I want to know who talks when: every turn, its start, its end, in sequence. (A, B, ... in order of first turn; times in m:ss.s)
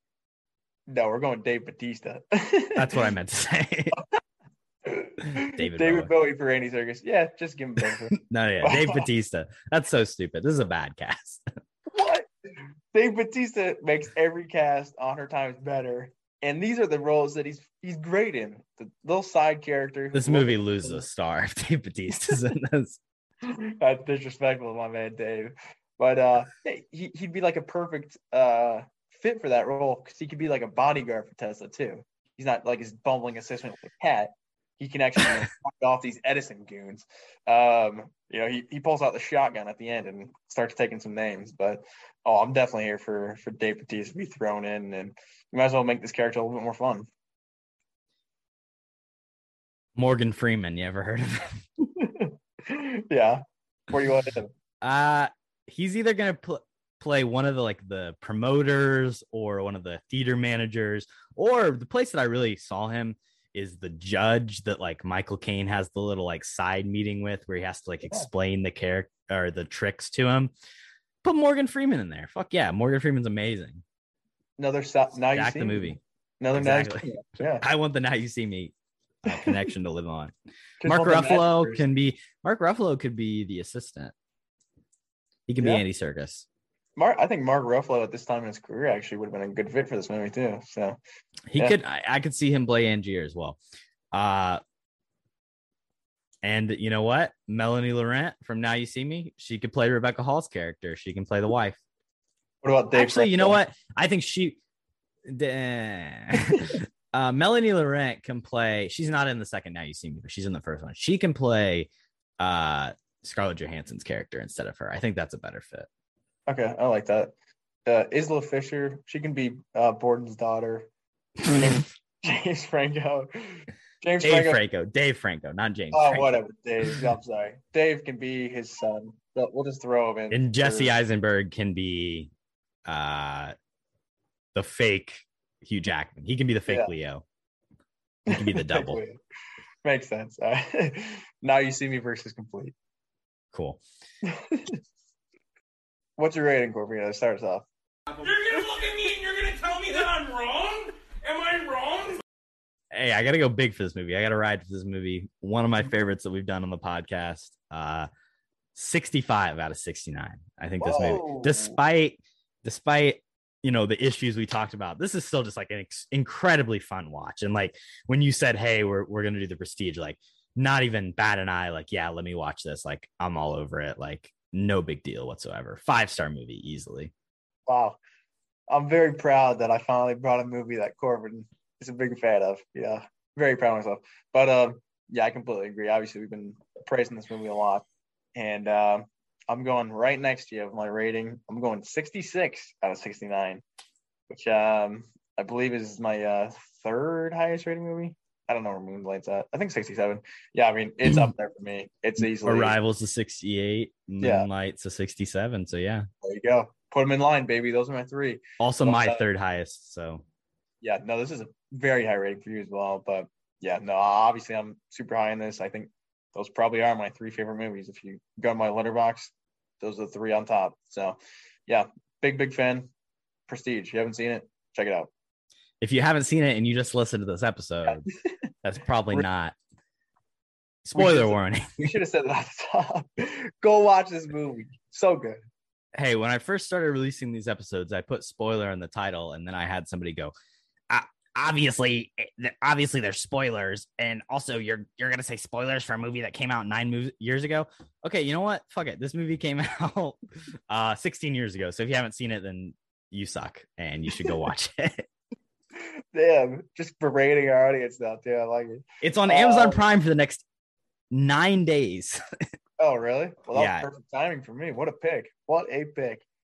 0:00.9-0:03.0 A
0:02.8-0:04.0 B
0:04.9-0:09.1 A
0:05.3-0:06.1 B
0:08.2-0:11.4 B
0:11.9-0:12.3 A
0:12.9-0:21.0 A
0:20.1-0:23.0 B
0:23.4-0:47.1 A
0:50.0-0:51.6 B
0:51.8-0:54.5 A
0:54.8-1:10.5 B
1:11.2-1:13.8 B
1:14.6-1:17.6 A
1:15.3-1:16.0 B
1:16.5-1:18.7 B
1:19.2-1:20.3 B
1:19.3-1:19.6 A
1:20.8-1:21.8 A
1:20.8-1:24.1 B
1:25.5-1:26.5 B
1:27.0-1:31.0 A
1:31.5-1:33.6 B
1:34.1-1:34.6 B
1:36.4-1:41.8 B
1:42.6-1:43.6 A
1:42.9-1:44.6 B
1:45.3-1:55.9 B
1:56.5-1:57.3 A
1:57.9-2:00.9 A
2:01.5-2:04.6 A
2:04.2-2:06.4 B
2:05.9-2:10.9 A
2:10.3-2:12.3 B
2:12.9-2:13.5 B
2:14.6-2:17.2 B
2:18.3-2:19.0 B
2:18.3-2:19.2 A
2:19.8-2:22.8 A
2:23.5-2:23.8 B
2:24.2-2:24.8 A
2:26.2-2:27.7 A
2:28.2-2:32.2 C
2:32.9-2:38.1 B
2:38.8-2:57.1 B
2:40.8-2:41.8 A
2:57.7-2:58.0 A
2:58.7-3:07.8 A
3:08.4-3:13.6 A
3:14.3-3:22.8 A
3:22.2-3:26.1 B
3:24.2-3:24.5 A
3:26.2-3:29.2 A
3:28.6-3:30.2 B
3:30.8-3:42.9 A
3:43.5-3:45.1 A
3:45.8-3:48.1 B
3:48.6-3:49.6 B
3:50.8-3:51.9 B
3:51.0-3:55.4 A
3:56.0-4:00.3 B
4:00.9-4:10.2 B
4:10.7-4:15.1 B
4:15.8-4:19.8 A
4:19.0-4:20.4 B
4:21.1-4:22.2 B
4:22.8-4:26.2 A
4:23.5-4:23.9 B